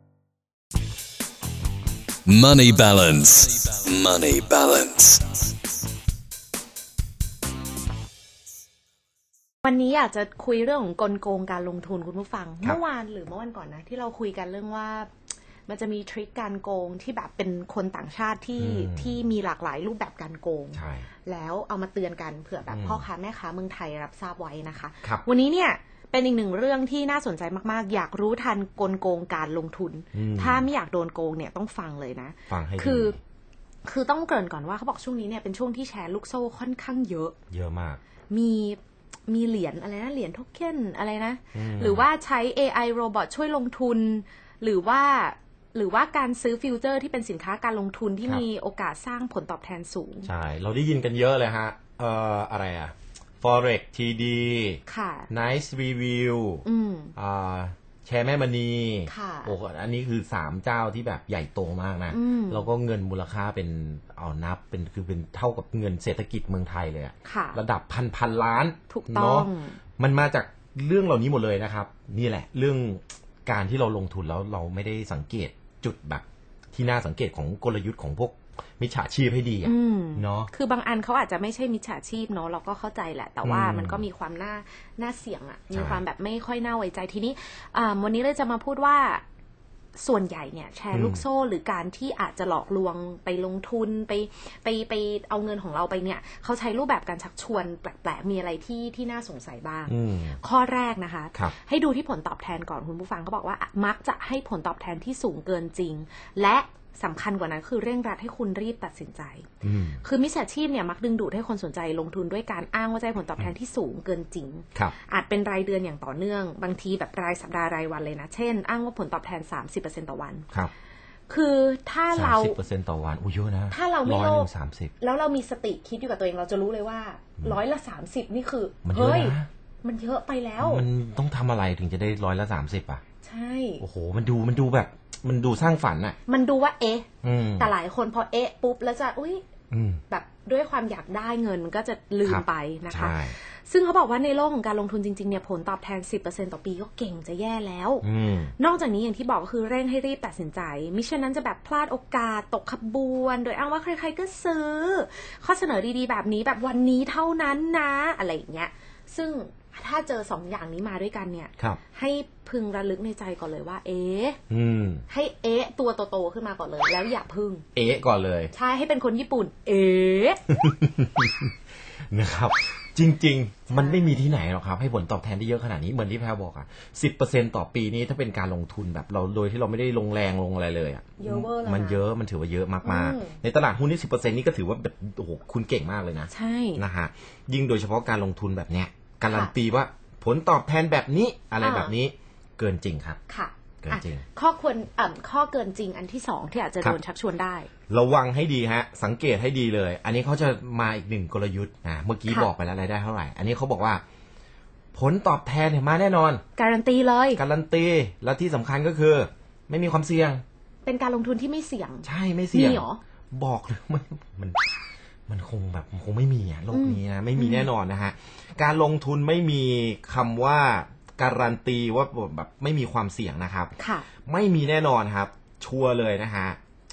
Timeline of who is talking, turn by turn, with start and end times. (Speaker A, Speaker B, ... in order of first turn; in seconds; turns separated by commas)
Speaker A: 2.2-5.2, Speaker B: 9.6-15.1, Speaker B: 15.7-33.2, Speaker C: 18.6-19.2, Speaker C: 20.7-21.1, Speaker C: 22.7-23.0, Speaker C: 30.1-30.6, Speaker C: 32.5-33.2, Speaker B: 33.8-37.3, Speaker C: 37.5-38.0, Speaker B: 38.3-50.3, Speaker C: 41.5-42.1, Speaker C: 50.2-56.6, Speaker B: 54.9-55.3, Speaker B: 56.6-57.1, Speaker C: 57.1-80.5, Speaker B: 59.1-59.5, Speaker B: 62.1-62.7, Speaker B: 67.2-67.6, Speaker B: 68.9-69.8, Speaker B: 79.6-89.2, Speaker C: 83.4-84.0, Speaker C: 85.7-86.0, Speaker B: 89.9-109.5, Speaker C: 90.9-91.2, Speaker C: 99.9-100.4, Speaker C: 109.6-110.0, Speaker B: 110.0-120.5, Speaker B: 121.3-122.6, Speaker C: 122.1-124.9, Speaker B: 123.7-130.8, Speaker C: 128.8-129.5, Speaker C: 130.6-133.0, Speaker B: 133.2-133.8, Speaker C: 133.8-136.2, Speaker B: 136.3-137.1, Speaker C: 137.2-137.7, Speaker B: 137.6-139.4, Speaker C: 139.7-140.0, Speaker B: 140.1-164.4, Speaker C: 142.2-143.4, Speaker C: 148.0-148.5, Speaker C: 164.5-165.1, Speaker B: 165.1-167.6, Speaker C: 167.7-168.5, Speaker B: 168.5-170.4, Speaker C: 170.5-171.5, Speaker C: 172.1-193.2, Speaker B: 173.7-174.2, Speaker B: 181.2-182.0, Speaker B: 182.8-183.4, Speaker B: 186.3-186.8, Speaker B: 191.6-191.9, Speaker B: 193.3-197.7, Speaker C: 193.8-194.2, Speaker C: 197.9-204.0, Speaker C: 204.9-206.4, Speaker B: 206.6-207.4, Speaker C: 207.4-210.4, Speaker B: 210.8-213.0, Speaker C: 212.0-214.6, Speaker C: 215.3-223.7, Speaker B: 216.7-217.7, Speaker B: 223.8-224.1, Speaker C: 224.2-226.6